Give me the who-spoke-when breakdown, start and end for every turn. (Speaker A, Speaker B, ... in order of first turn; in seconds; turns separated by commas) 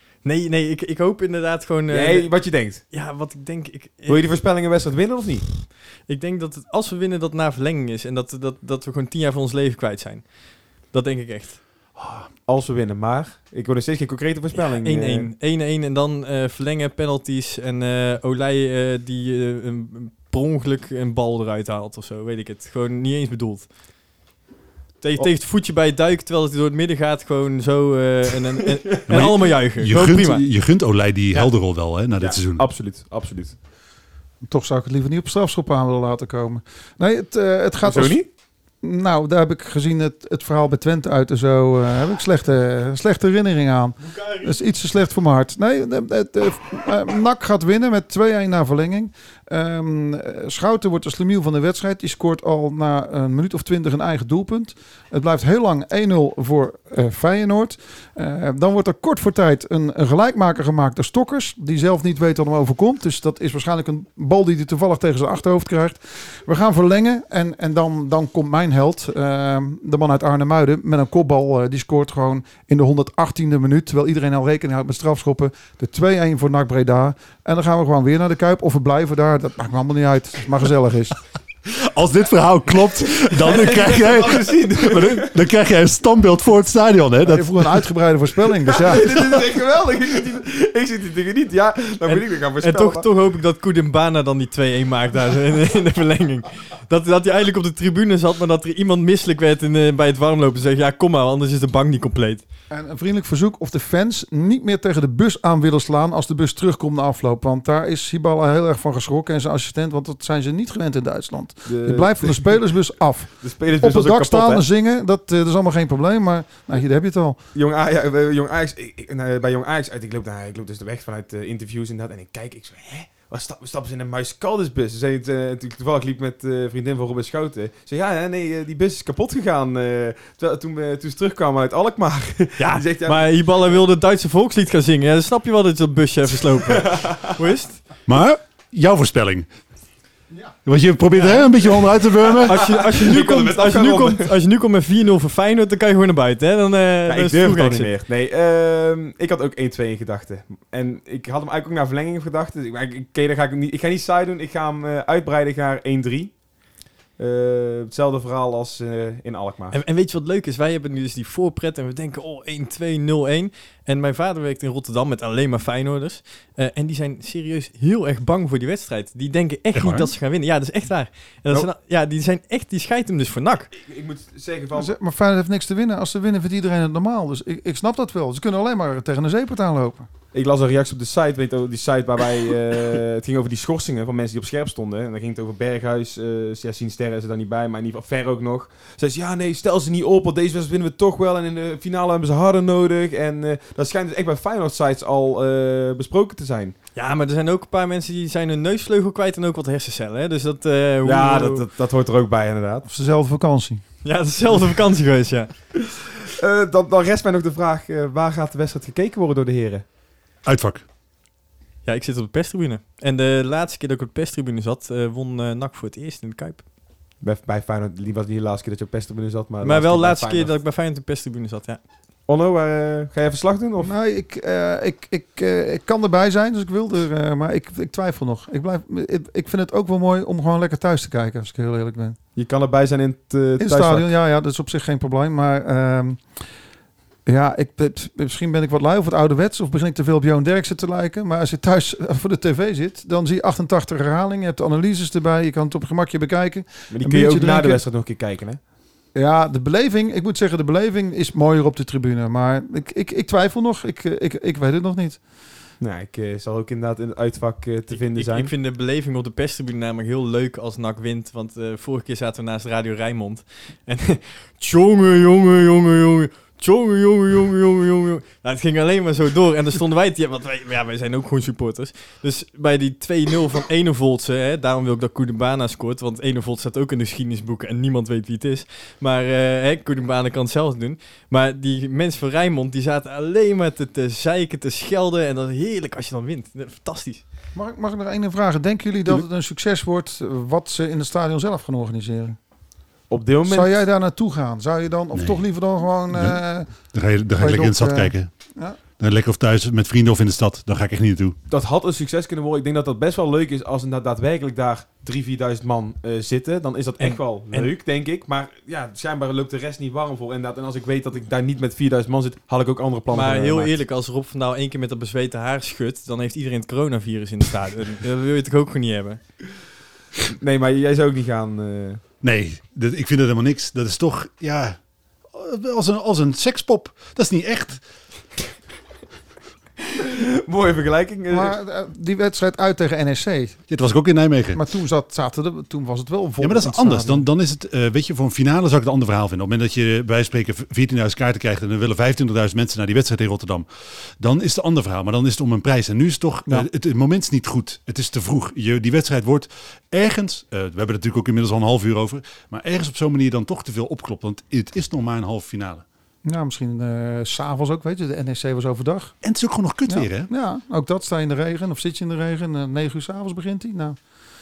Speaker A: 0.2-4.3, Speaker B: 1.9-2.8, Speaker B: 4.1-5.6, Speaker A: 6.0-11.6, Speaker C: 12.0-12.3, Speaker B: 12.4-15.3, Speaker A: 14.5-23.7, Speaker A: 25.0-30.5, Speaker C: 29.1-32.7, Speaker B: 32.2-33.6, Speaker D: 34.5-38.2, Speaker B: 37.8-38.2, Speaker D: 38.7-81.2, Speaker A: 44.0-44.5, Speaker C: 81.8-87.8, Speaker B: 83.4-85.4, Speaker D: 87.3-89.0, Speaker B: 88.7-93.0, Speaker A: 92.0-102.4, Speaker D: 102.7-117.4, Speaker B: 111.6-114.7, Speaker B: 117.5-133.3, Speaker A: 132.6-137.8, Speaker B: 136.7-137.3, Speaker C: 138.1-139.5, Speaker C: 140.6-142.6, Speaker B: 142.4-144.3, Speaker A: 142.5-147.9, Speaker B: 147.1-159.8, Speaker A: 159.7-173.7, Speaker C: 169.7-170.1, Speaker B: 173.7-174.9, Speaker D: 174.7-180.1, Speaker B: 180.3-196.7, Speaker A: 196.9-201.7, Speaker B: 201.0-202.9, Speaker D: 202.9-203.8, Speaker A: 204.0-205.6, Speaker B: 206.3-209.8, Speaker C: 210.4-210.8, Speaker A: 211.8-216.6, Speaker B: 217.2-220.6, Speaker A: 219.6-221.8, Speaker B: 222.2-223.9, Speaker D: 223.8-232.2, Speaker B: 232.3-234.1, Speaker D: 233.6-236.3, Speaker D: 237.2-247.8, Speaker B: 246.9-248.6, Speaker D: 249.1-255.2, Speaker B: 255.8-258.5, Speaker A: 257.9-287.2, Speaker D: 287.5-292.4, Speaker B: 293.1-293.7, Speaker D: 293.5-298.8, Speaker C: 295.1-298.3, Speaker C: 298.9-301.3, Speaker B: 301.5-313.7, Speaker A: 307.0-307.7, Speaker A: 313.1-319.2, Speaker B: 320.3-322.0, Speaker C: 322.2-327.8, Speaker B: 330.0-331.6, Speaker D: 331.3-333.7, Speaker C: 333.7-334.6, Speaker D: 334.5-337.2, Speaker C: 336.4-355.8, Speaker D: 356.2-359.1, Speaker C: 359.2-360.3, Speaker D: 359.9-364.0